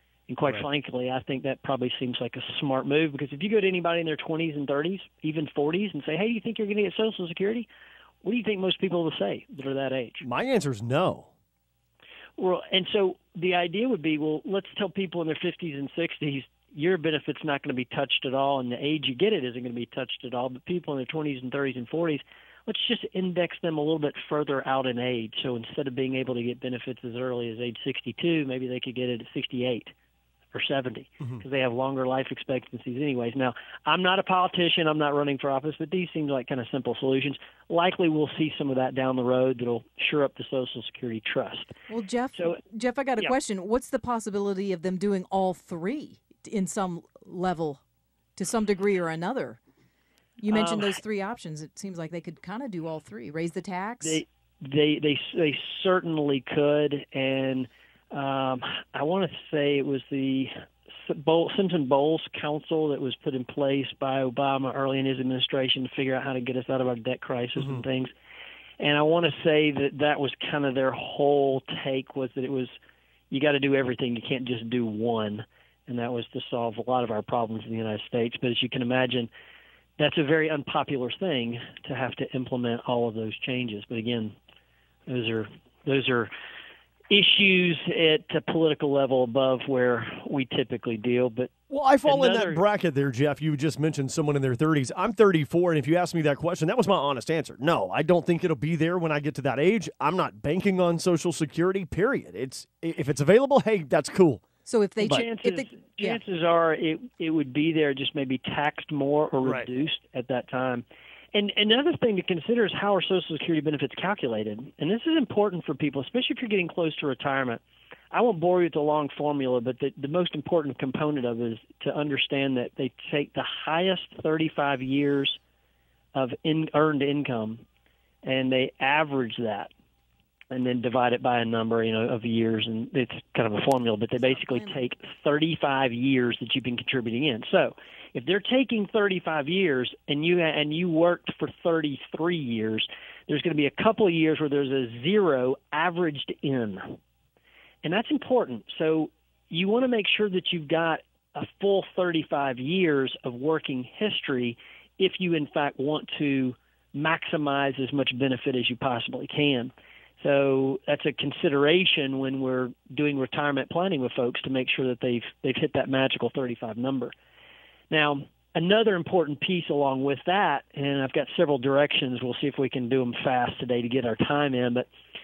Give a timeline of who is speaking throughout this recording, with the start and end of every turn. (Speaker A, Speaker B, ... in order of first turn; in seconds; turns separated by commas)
Speaker A: 0.3-7.7, Speaker A: 8.2-10.2, Speaker B: 10.2-11.3, Speaker A: 12.4-29.9, Speaker A: 30.5-41.8, Speaker C: 41.9-47.8, Speaker C: 48.4-49.6, Speaker C: 50.4-54.2, Speaker A: 50.5-51.0, Speaker A: 54.0-68.1, Speaker A: 68.8-72.7, Speaker A: 73.3-79.3, Speaker A: 80.0-84.3, Speaker A: 85.1-86.3, Speaker A: 87.1-91.5, Speaker B: 91.7-104.4, Speaker A: 92.0-92.6, Speaker C: 104.6-106.2, Speaker A: 105.0-117.6, Speaker B: 109.4-109.7, Speaker A: 118.1-125.4, Speaker A: 126.1-127.6, Speaker A: 128.2-129.7, Speaker A: 130.5-147.0, Speaker C: 134.2-134.8, Speaker A: 147.8-167.1, Speaker A: 167.9-174.9